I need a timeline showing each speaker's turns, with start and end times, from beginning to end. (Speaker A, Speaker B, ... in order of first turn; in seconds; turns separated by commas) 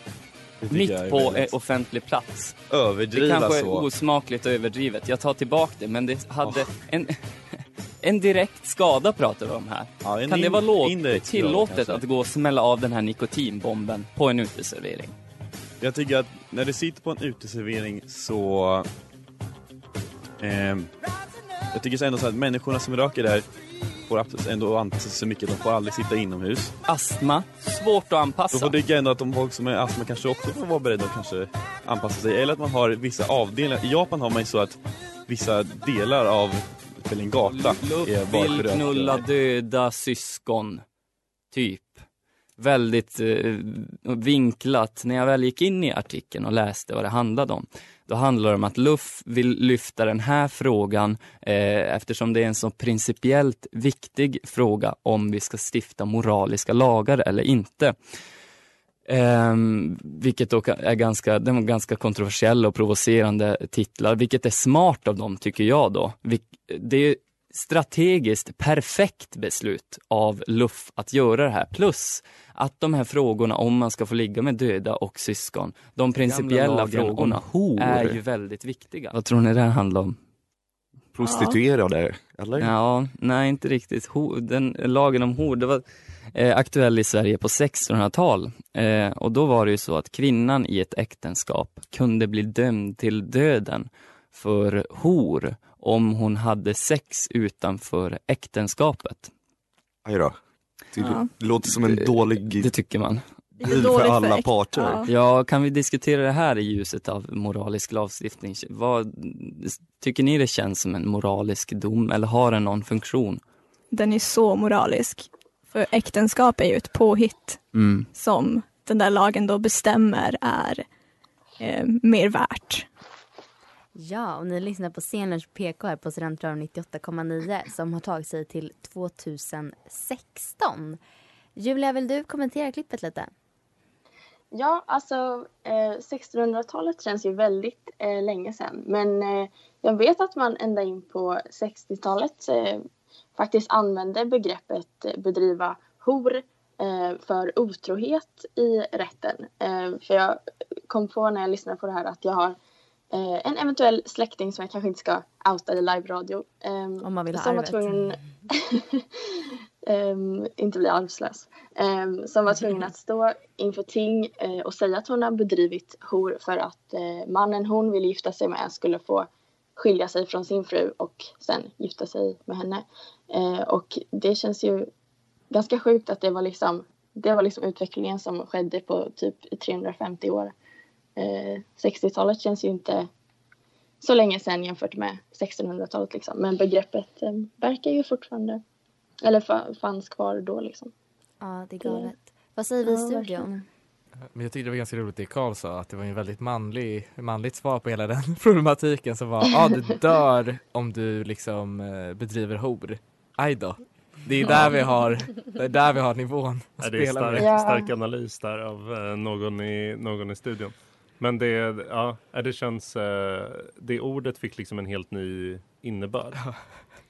Speaker A: 0.6-1.5, Speaker B: 0.7-2.5, Speaker A: 2.7-3.9, Speaker B: 3.1-7.2, Speaker B: 8.0-15.1, Speaker A: 10.0-12.0, Speaker A: 15.8-18.9, Speaker A: 20.4-20.9, Speaker A: 21.7-23.4, Speaker A: 24.1-26.7, Speaker B: 26.9-28.7, Speaker A: 28.5-39.2, Speaker B: 37.5-40.8, Speaker B: 41.5-42.0, Speaker B: 42.6-58.0, Speaker B: 59.1-80.2, Speaker C: 81.1-82.7, Speaker D: 81.2-81.5, Speaker B: 82.6-99.3, Speaker C: 100.0-100.4, Speaker C: 100.9-102.7, Speaker D: 101.0-101.3, Speaker B: 101.9-103.2, Speaker C: 103.6-105.0, Speaker D: 103.7-104.2, Speaker D: 104.7-105.0, Speaker B: 105.0-113.4, Speaker D: 113.9-120.8, Speaker D: 121.6-122.9, Speaker E: 123.9-131.0, Speaker E: 131.6-133.3, Speaker F: 134.5-142.8, Speaker F: 143.3-152.6, Speaker F: 153.1-159.0, Speaker E: 157.0-158.0, Speaker F: 159.9-174.9, Speaker F: 175.5-180.5, Speaker F: 181.2-183.1, Speaker F: 184.0-188.6, Speaker F: 189.2-190.9, Speaker E: 191.4-193.6, Speaker F: 191.8-192.1, Speaker F: 192.8-193.5, Speaker G: 194.3-207.5, Speaker H: 206.8-216.4, Speaker F: 207.4-207.9